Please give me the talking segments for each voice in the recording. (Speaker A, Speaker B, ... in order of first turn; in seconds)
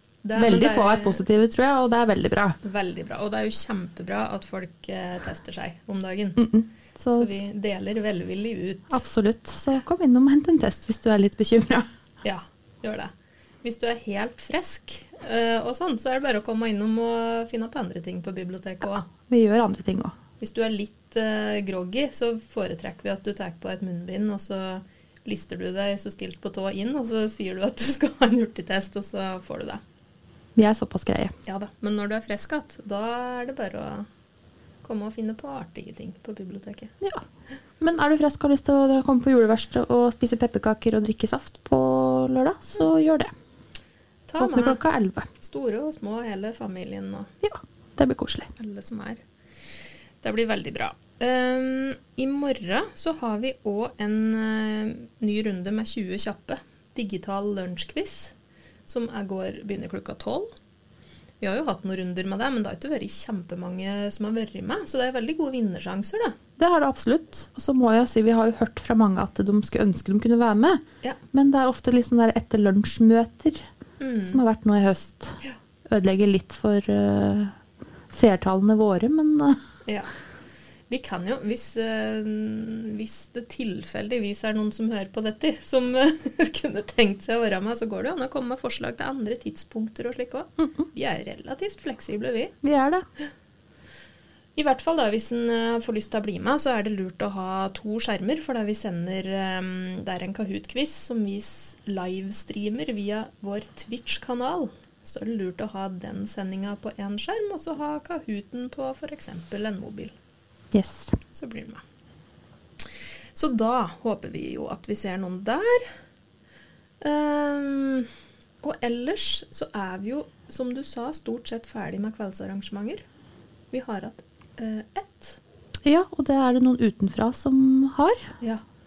Speaker A: 0.2-1.2, 2.6-6.4, 7.1-9.0, 12.2-13.1, 13.6-19.1, 20.4-29.8, 31.5-34.1, 34.8-36.9, 44.3-44.8, 45.4-47.3, 48.6-49.2, 50.2-58.3, 58.9-60.5, 61.4-66.3, 74.0-74.4, 80.9-92.5, 94.6-110.1, 111.3-111.8, 113.3-115.8, 117.0-118.1, 118.6-123.0, 123.7-125.4
Speaker B: 0.3-2.6, 6.4-7.3, 8.9-11.9, 19.1-20.1, 30.6-31.3, 37.8-43.3, 44.4-45.3, 47.4-48.5, 66.6-70.8, 71.3-73.6, 74.2-75.3, 75.9-77.5, 78.1-79.6, 92.6-93.0, 110.7-111.2, 125.8-128.2